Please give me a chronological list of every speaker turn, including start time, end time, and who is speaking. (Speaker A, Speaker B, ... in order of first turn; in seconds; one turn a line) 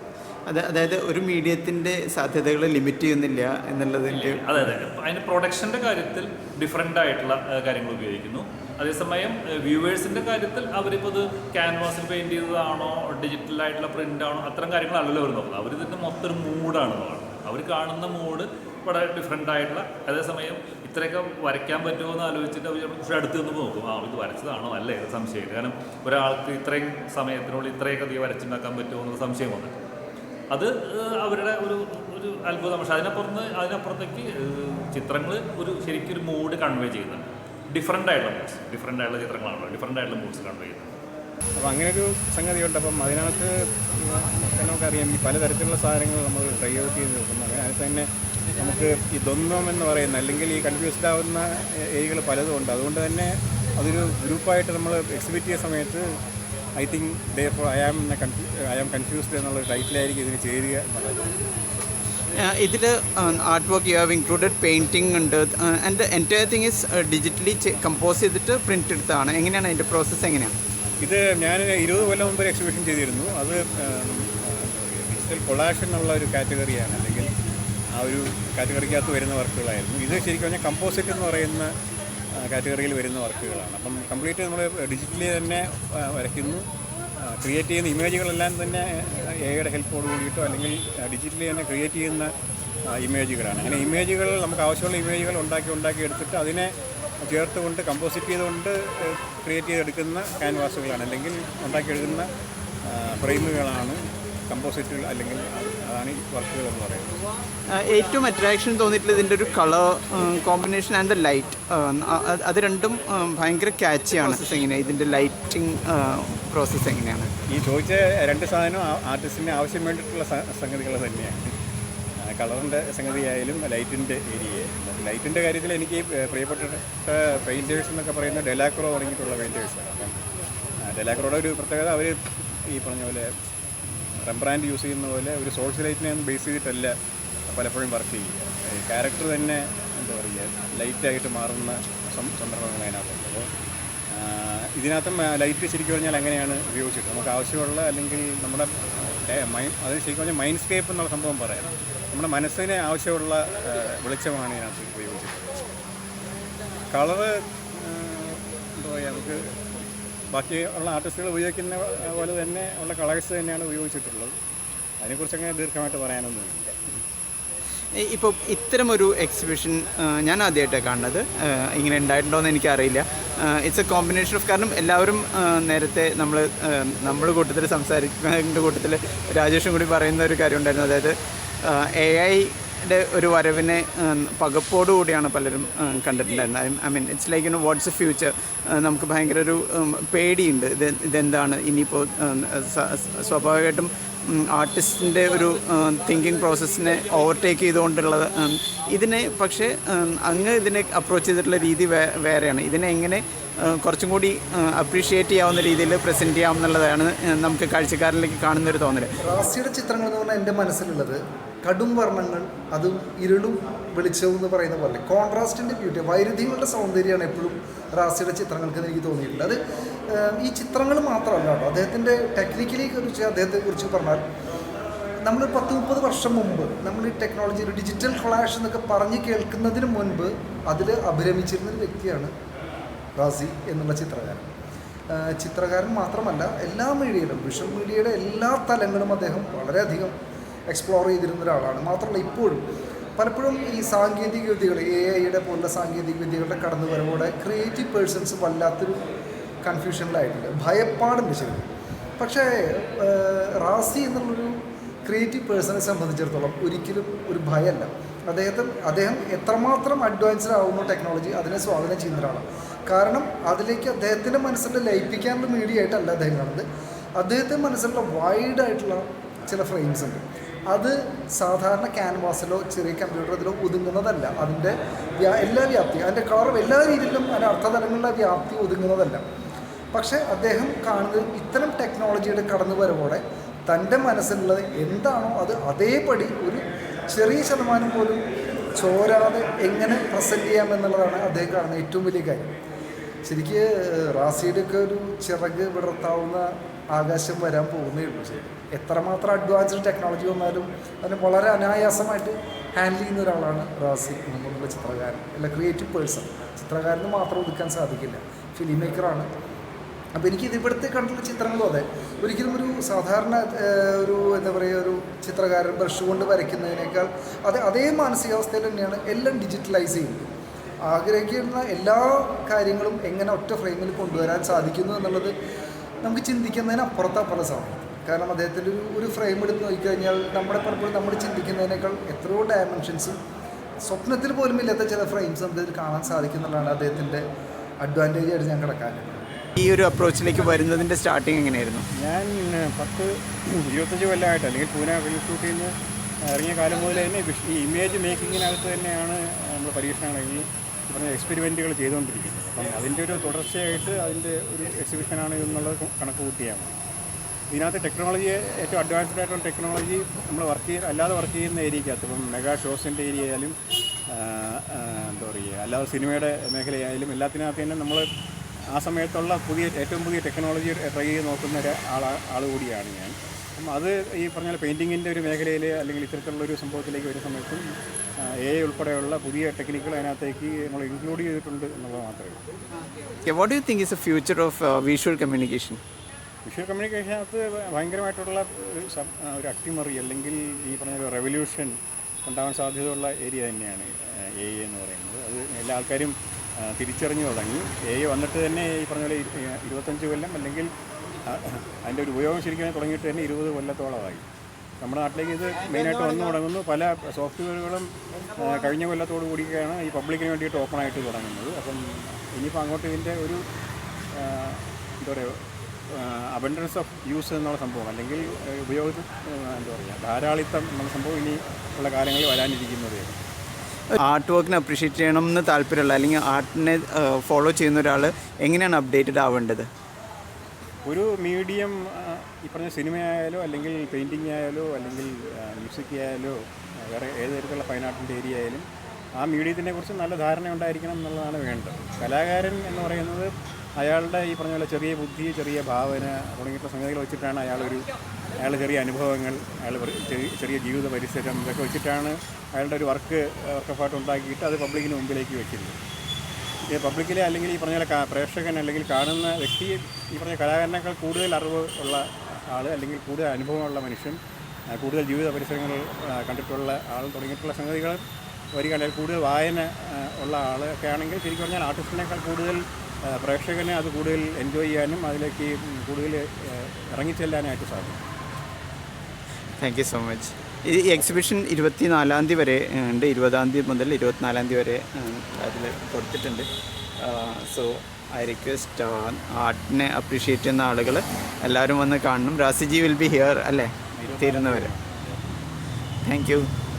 Speaker A: 0.5-4.4
Speaker B: 4.1-29.8
Speaker B: 30.5-40.9
Speaker C: 41.6-56.2
Speaker C: 56.8-61.3
Speaker A: 62.3-70.5
Speaker C: 71.0-77.3
Speaker C: 77.9-81.7
Speaker C: 82.3-86.7
Speaker C: 87.2-92.3
Speaker C: 92.9-102.3
Speaker C: 102.8-107.2
Speaker A: 107.7-117.3
Speaker C: 117.5-121.5
Speaker C: 122.2-130.3
Speaker C: 130.8-133.3
Speaker C: 133.8-137.0
Speaker C: 137.5-143.5
Speaker C: 144.1-155.6
Speaker C: 156.9-159.8
Speaker C: 160.3-164.4
Speaker C: 165.0-166.8
Speaker A: 167.9-209.2
Speaker D: 209.2-219.6
Speaker D: 220.1-224.2
Speaker D: 225.2-232.3
Speaker D: 233.2-234.5
Speaker D: 235.1-240.1
Speaker D: 240.7-242.7
Speaker D: 243.2-249.0
Speaker D: 249.6-266.6
Speaker D: 267.2-279.2
Speaker D: 279.9-288.2
Speaker D: 288.8-292.6
Speaker D: 293.3-309.3
Speaker D: 310.2-320.3
Speaker D: 320.9-325.3
Speaker D: 326.0-333.2
Speaker D: 333.9-337.2
Speaker D: 337.8-339.2
Speaker A: 339.6-341.9
Speaker C: 342.0-356.8
Speaker C: 357.5-363.6
Speaker C: 364.1-368.1
Speaker C: 368.7-377.7
Speaker C: 378.2-382.5
Speaker A: 383.2-385.8
Speaker C: 386.4-400.7
Speaker C: 401.2-404.2
Speaker C: 404.8-413.4
Speaker C: 414.1-423.2
Speaker A: 424.0-429.7
Speaker C: 430.9-438.6
Speaker C: 439.2-447.9
Speaker C: 448.4-455.8
Speaker C: 456.7-464.2
Speaker C: 464.7-478.1
Speaker A: 479.6-494.7
Speaker C: 494.0-495.4
Speaker A: 496.0-496.5